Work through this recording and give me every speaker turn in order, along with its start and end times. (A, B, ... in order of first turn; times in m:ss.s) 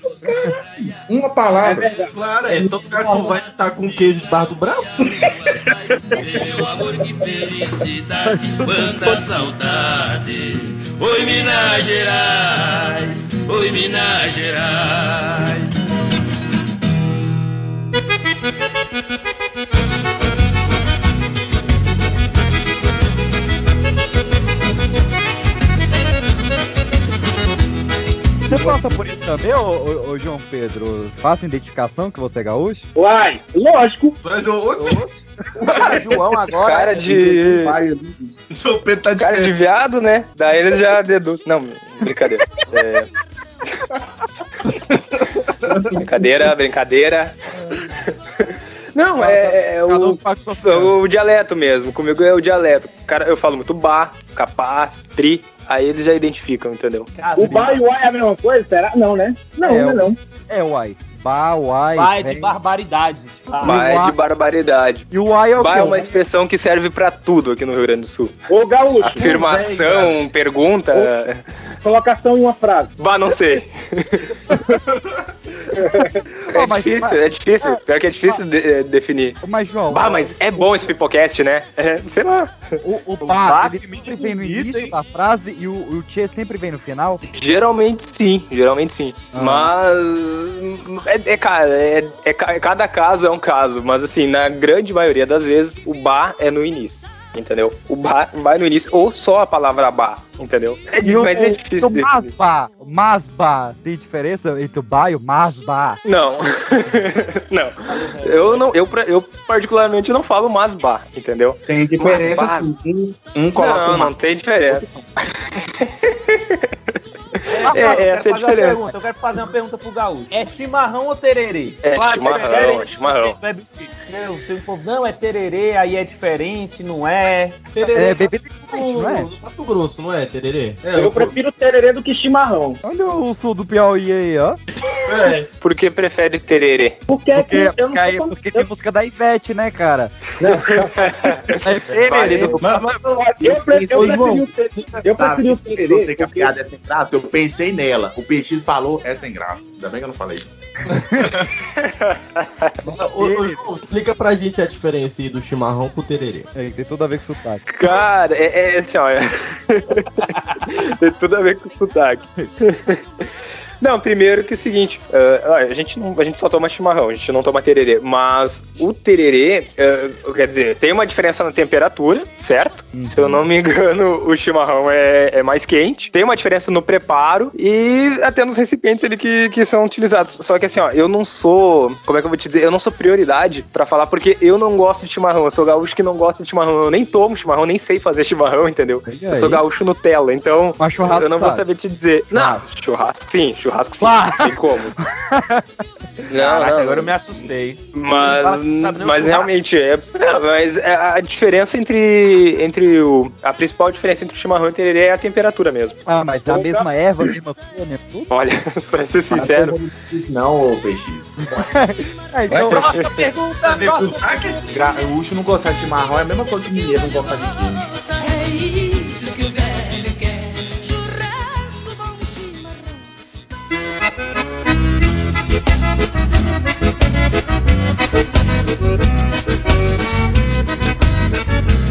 0:00.8-0:01.9 A
0:01.6-0:02.1 B
0:02.1-0:05.0 C
0:03.0-0:03.3 D
0:06.2-0:15.6 E
0:08.2-0:09.2 D
0:28.5-0:32.9 D
0:28.5-0:28.8 C
0:33.0-0:34.2 B
0:34.2-0:35.1 C
0:35.6-0:36.0 A
0:35.7-0:37.2 D
0:36.6-0:37.8 F
0:36.9-0:38.4 A
0:38.5-0:39.5 C
0:39.2-0:43.1 F
0:46.0-0:47.4 F
0:48.9-0:57.1 F
0:49.2-0:50.9 D
0:57.2-0:57.9 G
0:57.4-1:00.2 B
0:57.4-0:57.7 D
0:59.6-1:02.5 D
1:02.0-1:03.9 G
1:03.6-1:04.2 D
1:03.6-1:05.0 F
1:05.1-1:06.1 D
1:05.6-1:08.3 F
1:08.5-1:09.4 B
1:09.1-1:11.4 F
1:09.2-1:10.2 C
1:11.8-1:12.9 B
1:13.0-1:14.2 F
1:15.8-1:16.2 B
1:16.3-1:18.4 D
1:16.5-1:19.4 F
1:19.4-1:20.9 D
1:19.9-1:22.5 F
1:22.8-1:27.2 D
1:23.2-1:24.9 G
1:27.3-1:42.3 F
1:29.3-1:29.7 D
1:41.0-1:46.0 D
1:46.0-1:52.7 F
1:47.9-1:48.7 G
1:51.7-1:54.2 A
1:53.6-1:54.8 F
1:55.8-1:56.6 F
1:57.5-2:07.6 G
1:57.6-1:58.9 F
1:57.7-1:58.0 D
2:01.8-2:03.4 F
2:07.7-2:11.4 C
2:07.9-2:09.3 D
2:10.9-2:12.8 B
2:12.8-2:14.6 D
2:15.1-2:15.5 C
2:15.6-2:16.9 F
2:17.1-2:18.6 B
2:17.3-2:20.3 D
2:20.4-2:21.1 B
2:21.6-2:23.0 D
2:21.9-2:22.6 F
2:22.6-2:25.0 C
2:23.2-2:26.5 B
2:23.6-2:24.4 A
2:25.2-2:30.5 A
2:31.8-2:32.7 F
2:32.8-2:36.5 C
2:36.5-2:37.7 D
2:37.7-2:43.0 F
2:43.8-3:14.9 F
2:52.9-2:53.4 D
3:09.0-3:09.6 D
3:10.8-3:11.6 D
3:12.3-3:12.6 D
3:14.0-3:15.6 D
3:16.3-3:17.1 F
3:16.3-3:19.5 G
3:17.9-3:26.0 F
3:26.0-3:28.3 D
3:28.3-3:29.8 F
3:29.3-3:31.6 A
3:31.7-3:33.0 D
3:32.5-3:34.6 C
3:33.0-3:34.4 G
3:34.7-3:37.9 A
3:38.3-3:40.1 E